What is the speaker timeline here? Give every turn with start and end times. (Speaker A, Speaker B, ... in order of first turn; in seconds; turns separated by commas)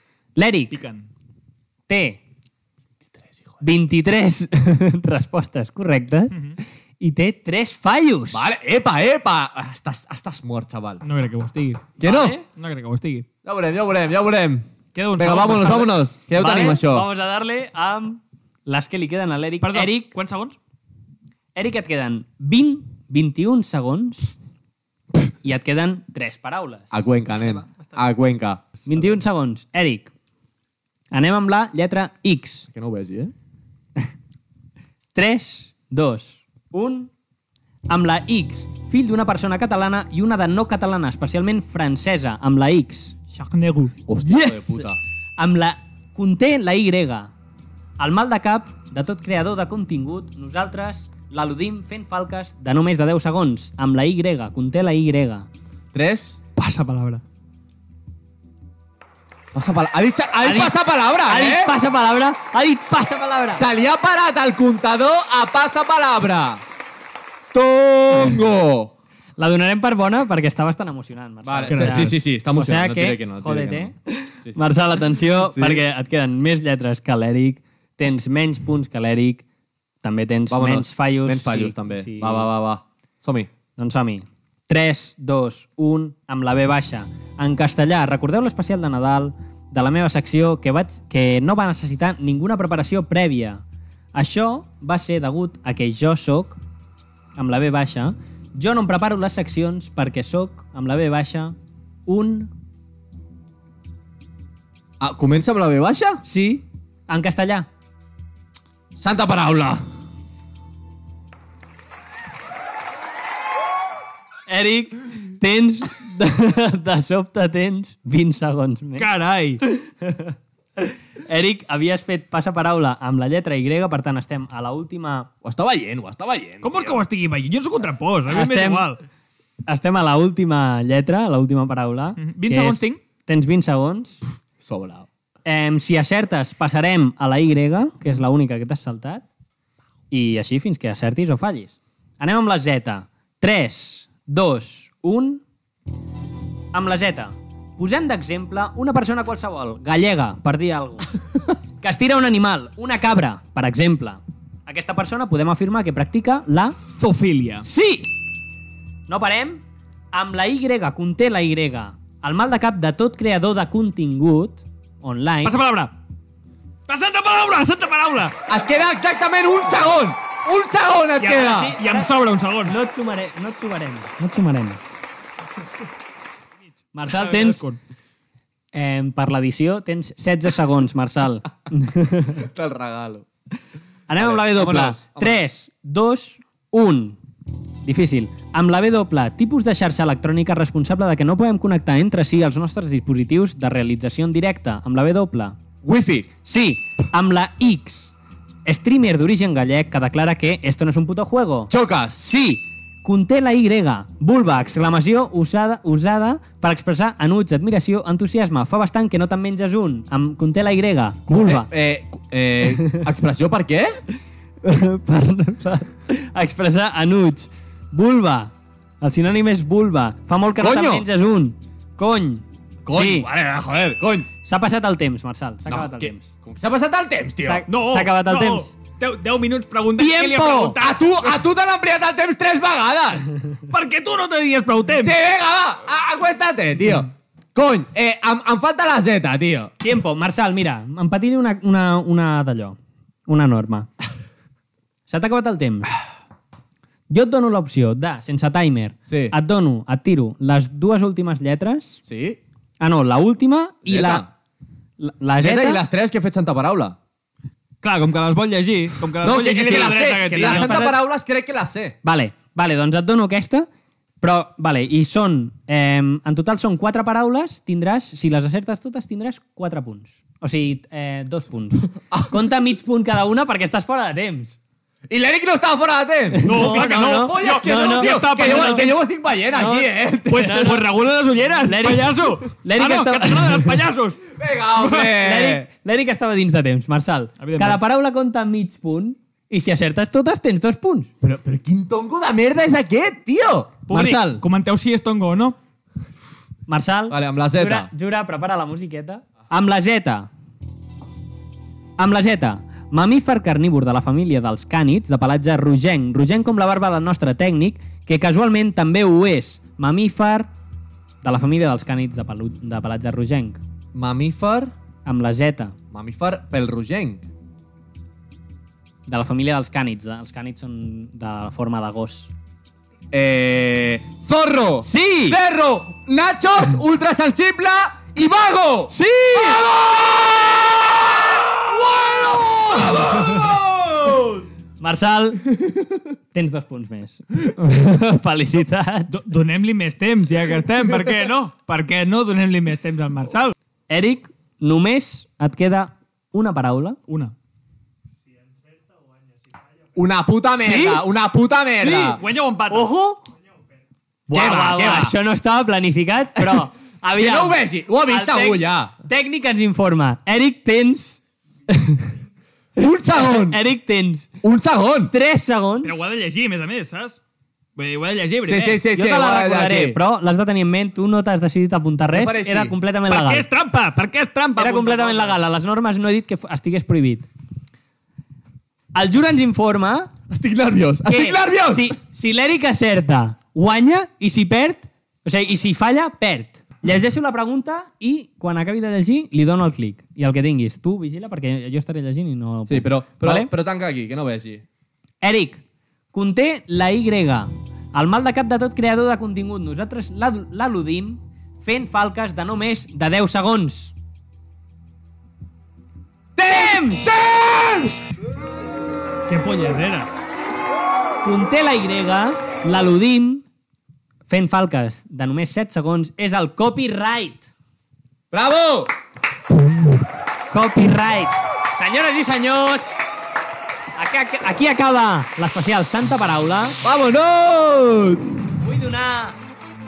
Speaker A: 0.3-0.8, Speaker B: 0.7-1.1, Speaker A: 1.9-2.2, Speaker A: 3.6-6.4, Speaker B: 6.3-6.6, Speaker A: 7.0-8.4, Speaker C: 8.3-11.0, Speaker B: 11.0-13.3, Speaker A: 12.0-12.4, Speaker C: 12.0-12.4, Speaker C: 13.4-14.7, Speaker B: 14.9-15.9, Speaker C: 15.2-17.1, Speaker A: 16.3-20.1, Speaker B: 19.6-20.6, Speaker A: 21.5-24.4, Speaker A: 25.4-26.9, Speaker C: 26.9-28.8, Speaker B: 27.5-27.9, Speaker A: 28.9-30.1, Speaker A: 31.1-32.7, Speaker C: 32.7-33.3, Speaker A: 35.1-37.1, Speaker A: 37.9-43.1, Speaker B: 43.3-43.9, Speaker C: 44.1-45.0, Speaker A: 44.2-44.9, Speaker A: 45.4-47.3, Speaker A: 48.0-55.5, Speaker C: 55.9-56.4, Speaker B: 56.5-57.2, Speaker C: 59.5-61.7, Speaker A: 60.4-63.6, Speaker C: 63.5-66.6, Speaker C: 67.5-68.9, Speaker A: 69.4-79.4, Speaker C: 71.4-73.9, Speaker B: 71.7-72.2, Speaker C: 75.5-75.8, Speaker A: 80.0-82.5, Speaker C: 80.5-83.5, Speaker A: 83.8-93.6, Speaker A: 94.1-96.6, Speaker A: 97.3-101.5, Speaker A: 102.0-102.5, Speaker C: 105.0-106.2, Speaker A: 106.2-107.7, Speaker C: 109.0-109.8, Speaker A: 114.5-119.0, Speaker B: 119.0-119.6, Speaker A: 119.6-125.3, Speaker C: 125.4-127.0, Speaker B: 126.6-129.0, Speaker A: 128.3-128.9, Speaker A: 129.7-134.2, Speaker B: 132.2-133.0, Speaker C: 134.6-135.1, Speaker A: 135.4-139.2, Speaker A: 140.1-145.4, Speaker A: 146.7-151.1, Speaker A: 151.8-156.8, Speaker B: 156.9-157.7, Speaker A: 157.6-158.1, Speaker A: 159.1-165.6, Speaker B: 165.4-165.9, Speaker B: 166.9-168.4, Speaker C: 168.5-171.8, Speaker B: 171.2-172.7, Speaker A: 171.6-172.1, Speaker A: 172.6-174.8, Speaker A: 176.9-177.6, Speaker B: 177.1-177.8, Speaker A: 178.7-182.5, Speaker C: 182.3-183.3, Speaker A: 184.1-187.2, Speaker C: 184.2-185.4, Speaker A: 187.8-195.6, Speaker C: 195.8-196.3, Speaker A: 196.4-198.1, Speaker A: 198.7-211.7, Speaker C: 201.7-202.2, Speaker C: 211.3-214.0, Speaker A: 214.6-223.3, Speaker C: 220.6-221.1, Speaker C: 222.8-224.3, Speaker A: 224.4-226.3, Speaker C: 225.7-227.7, Speaker A: 227.4-228.7, Speaker B: 227.7-230.9, Speaker A: 230.0-230.8, Speaker C: 230.7-233.3, Speaker B: 233.7-235.1, Speaker C: 235.0-239.7, Speaker A: 239.8-243.9, Speaker A: 245.1-245.9, Speaker A: 247.1-252.0, Speaker C: 249.1-249.3, Speaker C: 252.1-252.4, Speaker A: 252.8-254.2, Speaker C: 253.8-254.3, Speaker A: 255.0-255.8, Speaker C: 255.4-257.0, Speaker B: 257.8-260.9, Speaker C: 259.2-262.0, Speaker A: 260.3-260.9, Speaker A: 262.0-263.7, Speaker A: 264.2-274.6, Speaker C: 275.1-280.7, Speaker A: 276.4-278.9, Speaker B: 276.4-278.9, Speaker A: 279.5-280.9, Speaker B: 280.3-284.2, Speaker A: 281.6-283.9, Speaker C: 284.3-285.7, Speaker B: 284.8-285.1, Speaker A: 285.1-291.1, Speaker B: 287.4-287.8, Speaker C: 291.2-293.8, Speaker B: 293.9-295.6, Speaker A: 293.9-294.4, Speaker A: 296.7-300.3, Speaker C: 297.1-297.9, Speaker A: 302.0-310.5, Speaker A: 311.2-313.6, Speaker C: 313.9-314.7, Speaker A: 315.1-315.8, Speaker C: 315.9-317.3, Speaker A: 319.1-322.3, Speaker C: 323.1-334.4, Speaker A: 324.8-325.4, Speaker A: 328.9-329.6, Speaker A: 334.8-335.4, Speaker A: 336.3-339.2, Speaker B: 339.1-343.5, Speaker A: 343.9-347.0, Speaker B: 347.1-347.3, Speaker C: 349.9-352.2, Speaker A: 350.7-351.0, Speaker B: 351.8-352.9, Speaker A: 352.7-353.2, Speaker A: 354.3-361.2, Speaker C: 354.3-355.1, Speaker B: 354.5-354.9, Speaker C: 356.4-358.9, Speaker A: 361.7-362.1, Speaker C: 362.8-363.6, Speaker A: 363.1-364.3, Speaker C: 364.4-365.1, Speaker A: 365.1-365.9, Speaker B: 365.8-367.2, Speaker B: 367.8-368.8, Speaker C: 368.4-370.0, Speaker A: 368.9-373.4, Speaker C: 372.1-372.8, Speaker B: 373.1-375.4, Speaker A: 374.6-377.3, Speaker A: 378.9-380.1, Speaker C: 380.3-381.9, Speaker A: 381.1-393.5, Speaker C: 392.7-394.6, Speaker A: 395.2-395.6, Speaker A: 396.1-403.9, Speaker A: 406.4-407.1, Speaker C: 406.4-408.0, Speaker B: 409.3-410.1, Speaker A: 411.2-413.4, Speaker A: 414.3-417.4, Speaker C: 418.3-418.9, Speaker A: 420.5-423.1, Speaker A: 423.9-426.8, Speaker C: 426.8-428.3, Speaker A: 428.6-429.4